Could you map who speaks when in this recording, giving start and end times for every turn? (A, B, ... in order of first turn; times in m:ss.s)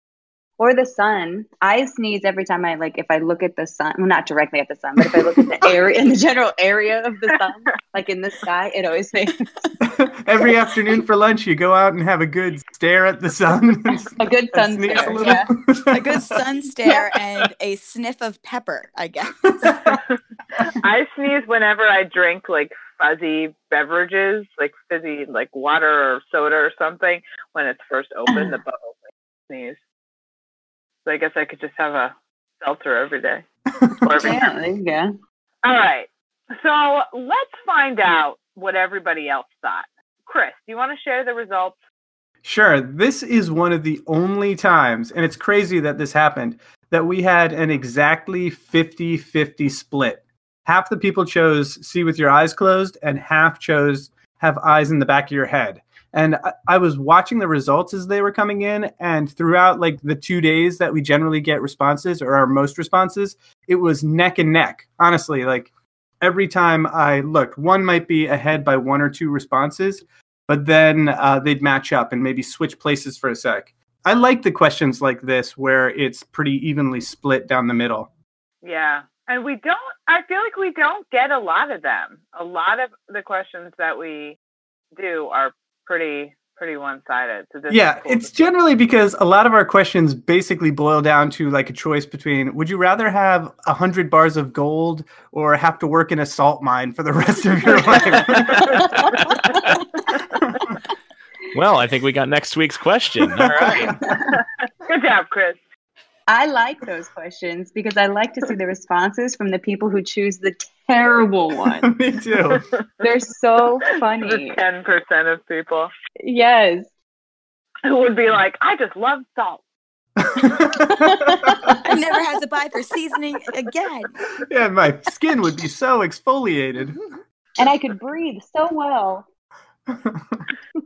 0:00.6-0:09.5 A
0:09.8-0:16.4 B
0:14.0-0:15.5 A
0:15.9-0:20.0 C
0:19.4-0:20.0 B
0:20.8-0:29.8 D
0:31.0-0:33.4 D
0:34.0-0:34.6 D
0:34.1-0:35.2 A
0:35.6-0:41.8 D
0:42.4-1:18.1 B
1:18.6-1:24.4 D
1:25.0-1:28.4 D
1:27.7-1:39.1 B
1:39.3-1:39.7 E
1:41.5-1:44.0 E
1:43.4-1:44.0 B
1:44.3-1:45.6 D
1:46.3-1:51.9 A
1:51.8-1:52.6 B
1:53.0-1:54.6 A
1:54.2-1:55.9 D
1:56.2-1:56.9 A
1:57.9-1:59.6 D
2:00.2-2:01.8 B
2:00.9-2:01.8 A
2:01.8-2:04.2 C
2:04.4-2:07.0 B
2:07.6-2:09.2 A
2:09.9-2:10.4 B